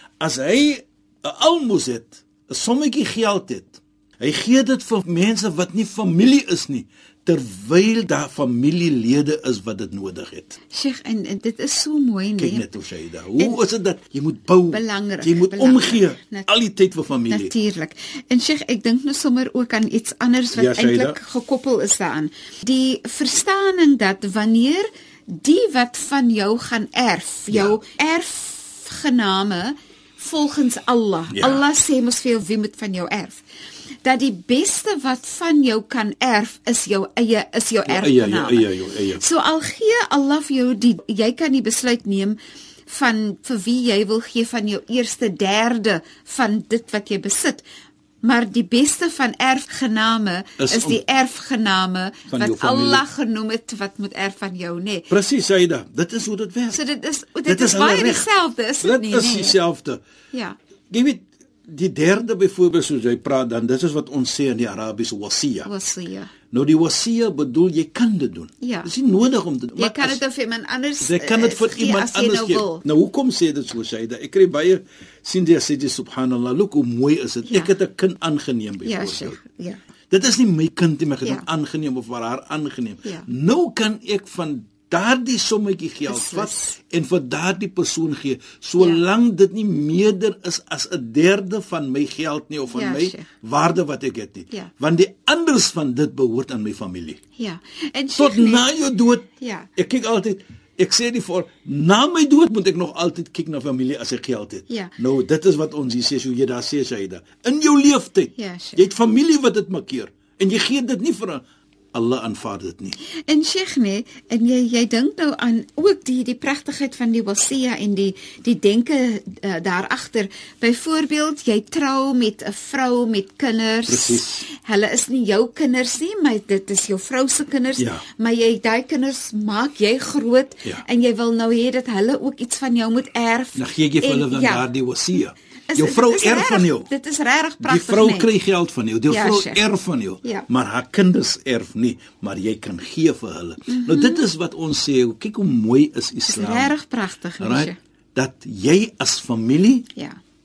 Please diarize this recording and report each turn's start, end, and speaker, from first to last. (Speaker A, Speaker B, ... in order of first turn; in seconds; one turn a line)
Speaker A: 0.2-10.6
Speaker B: 10.7-12.7
Speaker A: 12.4-17.5
Speaker B: 14.7-16.5
Speaker B: 17.3-33.4
Speaker A: 20.5-21.2
Speaker A: 27.5-27.8
Speaker A: 31.3-31.6
Speaker B: 34.0-47.6
Speaker A: 37.8-39.2
Speaker B: 48.2-55.1
Speaker A: 50.6-51.0
Speaker A: 52.3-53.0
Speaker A: 55.1-56.8
Speaker B: 56.7-59.6
Speaker A: 57.5-58.3
Speaker A: 58.8-60.0
Speaker B: 60.3-60.6
Speaker A: 60.9-65.7
Speaker B: 65.6-66.3
Speaker A: 66.5-70.2
Speaker B: 68.6-68.9
Speaker B: 69.8-72.8
Speaker A: 71.0-79.4
Speaker B: 77.4-77.7
Speaker B: 78.8-79.8
Speaker A: 80.1-97.2
Speaker B: 86.1-86.8
Speaker B: 88.8-89.0
Speaker B: 92.7-93.3
Speaker B: 97.4-98.7
Speaker A: 98.2-113.0
Speaker B: 99.4-99.7
Speaker B: 108.3-108.8
Speaker B: 113.3-134.7
Speaker A: 123.9-124.4
Speaker A: 127.8-128.0
Speaker A: 133.6-136.9
Speaker B: 135.7-138.3
Speaker A: 137.6-146.8
Speaker B: 139.1-139.6
Speaker B: 143.7-144.2
Speaker B: 146.3-147.8
Speaker A: 147.4-149.9